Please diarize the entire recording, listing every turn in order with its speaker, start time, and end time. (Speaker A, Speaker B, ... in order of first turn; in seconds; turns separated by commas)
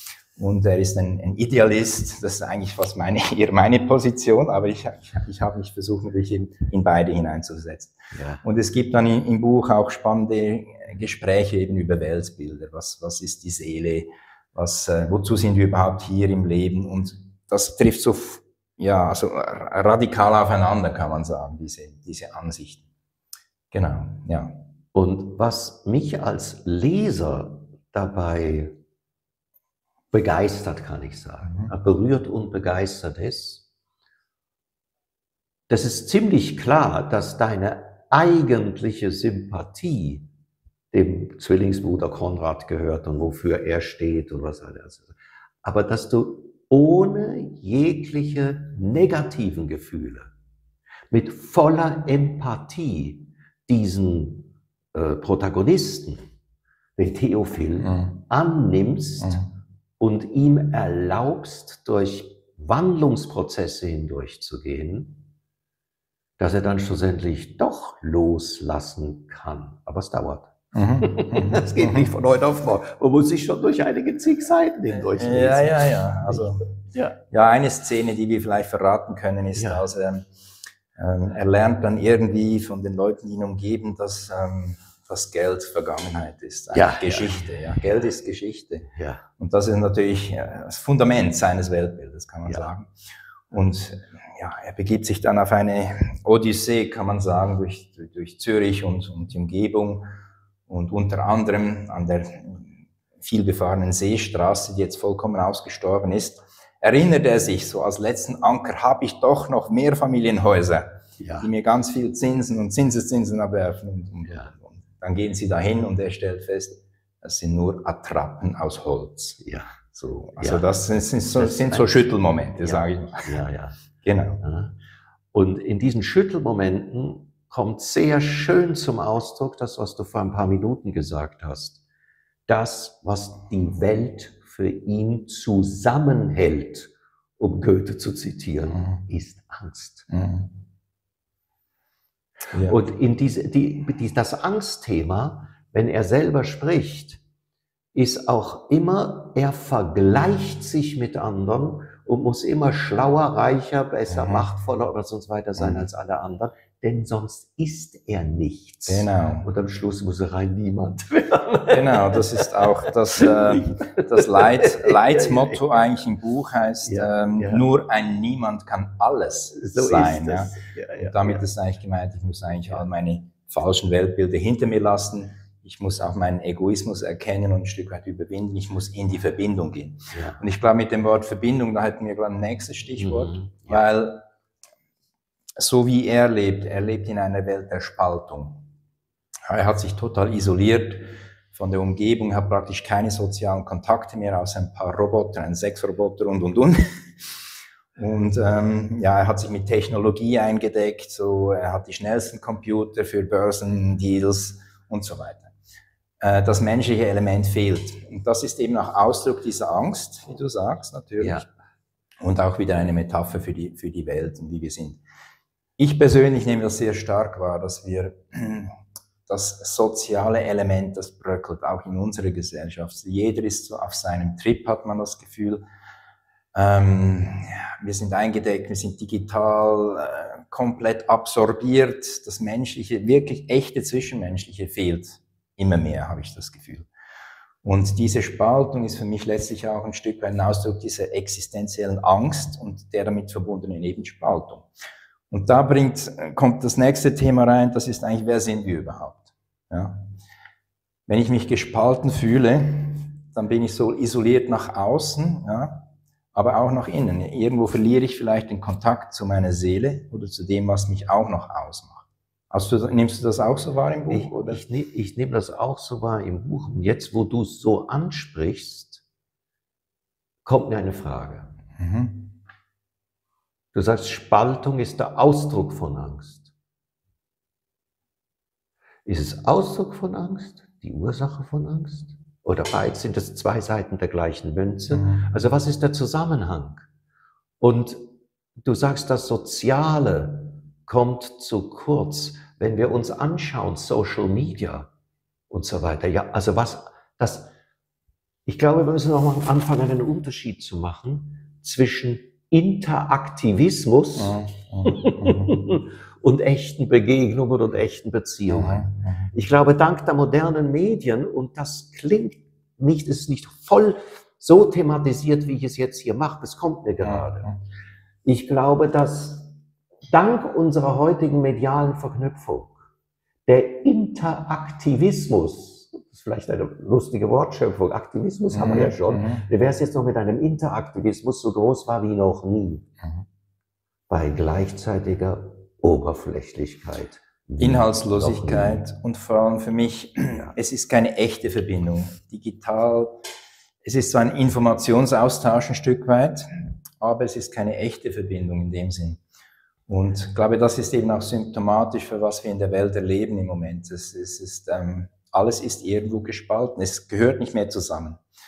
Speaker A: 0.4-22.8, Speaker B: 8.1-8.4, Speaker A: 23.7-24.6, Speaker B: 24.9-28.8, Speaker B: 30.1-33.6, Speaker A: 31.5-31.7, Speaker B: 35.7-40.3, Speaker B: 40.9-50.3, Speaker B: 51.1-56.2, Speaker B: 57.0-59.5, Speaker A: 57.8-58.2, Speaker B: 60.0-65.2, Speaker B: 66.4-77.2, Speaker A: 70.7-72.1, Speaker A: 74.9-76.6, Speaker A: 77.3-80.3, Speaker B: 79.6-79.9, Speaker A: 81.0-88.9, Speaker B: 86.7-88.1, Speaker B: 88.9-89.3, Speaker A: 89.4-92.9, Speaker A: 93.5-100.1, Speaker A: 100.7-119.4, Speaker B: 111.2-111.5, Speaker B: 119.4-119.8, Speaker A: 119.9-123.4, Speaker B: 120.4-120.7, Speaker B: 121.3-123.8, Speaker A: 124.0-124.4, Speaker B: 124.4-124.8, Speaker B: 125.3-131.8, Speaker B: 132.5-140.1, Speaker A: 140.1-140.5, Speaker B: 142.6-147.2, Speaker B: 147.9-165.8, Speaker A: 154.1-154.5, Speaker A: 155.6-155.8, Speaker A: 158.9-159.5, Speaker A: 161.7-184.3, Speaker B: 166.8-167.7, Speaker B: 169.5-171.5, Speaker B: 180.1-180.4, Speaker B: 183.0-183.8, Speaker A: 185.6-188.7, Speaker A: 189.5-196.8, Speaker A: 198.0-205.5, Speaker A: 206.2-211.5, Speaker B: 211.2-211.5, Speaker A: 212.2-215.0, Speaker A: 215.8-218.7, Speaker A: 219.3-225.6, Speaker A: 226.5-236.9, Speaker A: 237.6-244.7, Speaker A: 245.3-250.1, Speaker A: 251.1-264.6, Speaker B: 264.1-269.0, Speaker B: 270.4-271.6, Speaker A: 271.8-272.3, Speaker B: 273.7-276.5, Speaker B: 279.1-286.9, Speaker A: 284.9-285.3, Speaker B: 287.6-288.0, Speaker B: 288.6-294.9, Speaker B: 295.5-297.5, Speaker B: 298.5-317.6, Speaker A: 304.2-305.6, Speaker A: 308.5-309.3, Speaker A: 317.0-317.6, Speaker B: 318.2-319.6, Speaker B: 320.1-322.8, Speaker B: 323.5-332.9, Speaker A: 328.5-329.4, Speaker B: 334.1-338.8, Speaker A: 337.6-343.2, Speaker A: 343.8-349.2, Speaker A: 349.9-358.2